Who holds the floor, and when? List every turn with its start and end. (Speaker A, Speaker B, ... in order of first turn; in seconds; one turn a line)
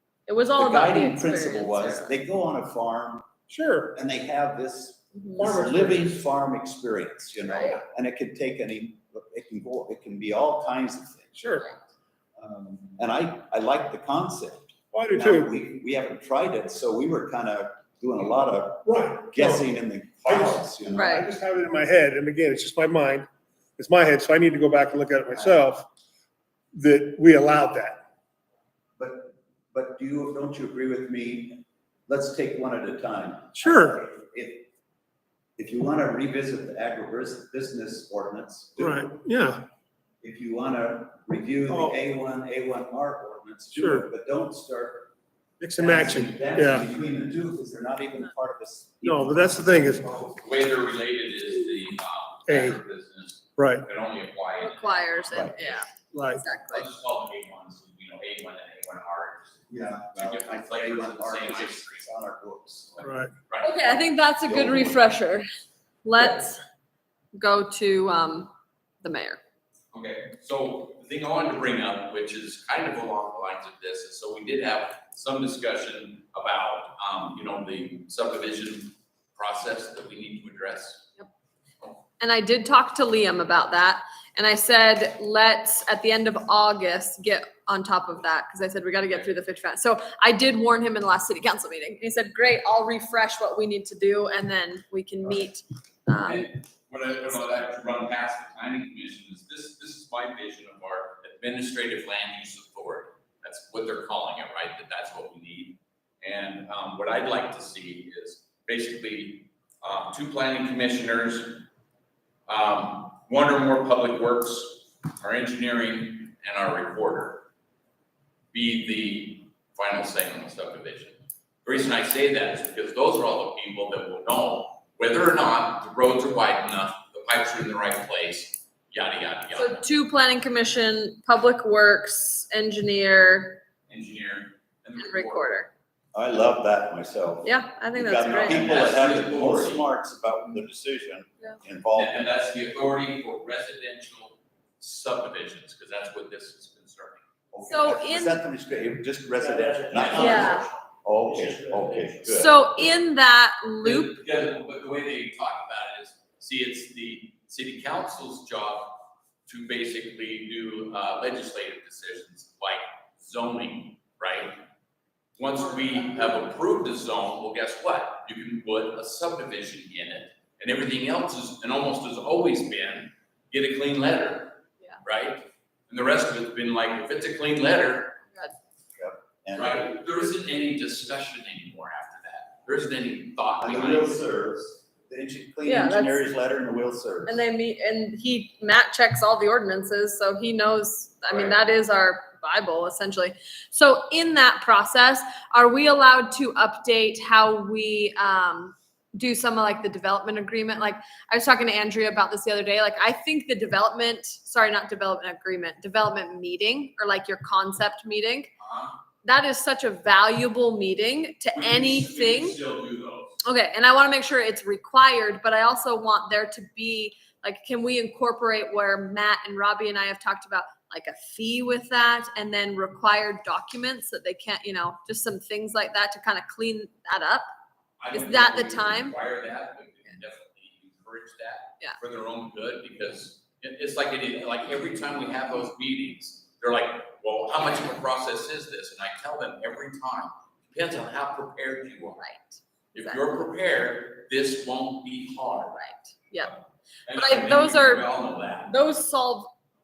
Speaker A: 0.3-2.1
Speaker B: 0.5-3.3
Speaker C: 3.5-3.9
Speaker B: 3.9-11.6
Speaker A: 5.1-5.7
Speaker C: 5.4-6.1
Speaker A: 7.5-7.8
Speaker C: 11.4-11.7
Speaker B: 12.4-21.2
Speaker C: 14.9-15.5
Speaker C: 18.9-19.7
Speaker C: 20.2-25.9
Speaker A: 20.9-21.2
Speaker B: 25.3-25.6
Speaker C: 26.7-28.0
Speaker B: 29.0-34.7
Speaker C: 33.6-34.0
Speaker B: 35.6-39.1
Speaker C: 38.8-39.6
Speaker B: 40.2-45.1
Speaker C: 41.7-42.0
Speaker C: 43.8-44.1
Speaker C: 45.6-46.9
Speaker B: 45.8-50.4
Speaker C: 49.0-50.1
Speaker D: 50.4-55.9
Speaker C: 52.5-52.8
Speaker C: 53.6-53.9
Speaker A: 54.6-56.9
Speaker C: 56.1-56.4
Speaker D: 56.7-62.1
Speaker B: 59.7-63.0
Speaker D: 62.9-64.0
Speaker C: 63.0-63.3
Speaker A: 63.6-65.5
Speaker B: 64.5-65.1
Speaker A: 66.0-66.6
Speaker A: 67.3-69.4
Speaker D: 69.9-81.1
Speaker A: 82.2-96.5
Speaker D: 96.2-111.7
Speaker D: 112.5-117.5
Speaker D: 118.5-129.8
Speaker A: 129.5-133.6
Speaker D: 133.9-135.7
Speaker A: 135.0-135.7
Speaker B: 136.1-142.3
Speaker A: 137.4-138.6
Speaker D: 138.4-139.8
Speaker D: 141.9-147.2
Speaker B: 147.5-152.6
Speaker A: 147.6-148.4
Speaker C: 149.4-150.6
Speaker D: 149.9-150.8
Speaker A: 150.1-150.7
Speaker C: 151.3-152.2
Speaker A: 152.3-154.2
Speaker D: 153.8-164.6
Speaker D: 165.4-178.2
Speaker B: 179.0-179.9
Speaker D: 179.5-184.2
Speaker B: 183.6-187.4
Speaker A: 185.6-186.2
Speaker A: 187.3-208.5
Speaker D: 191.3-191.6
Speaker D: 208.6-209.0
Speaker A: 209.2-212.6
Speaker D: 211.5-213.4
Speaker A: 213.4-227.5
Speaker D: 228.0-242.3
Speaker A: 228.1-229.2
Speaker A: 242.2-243.2
Speaker D: 242.9-245.8
Speaker A: 245.7-246.5
Speaker D: 246.4-248.7
Speaker A: 247.1-248.1
Speaker A: 248.7-249.5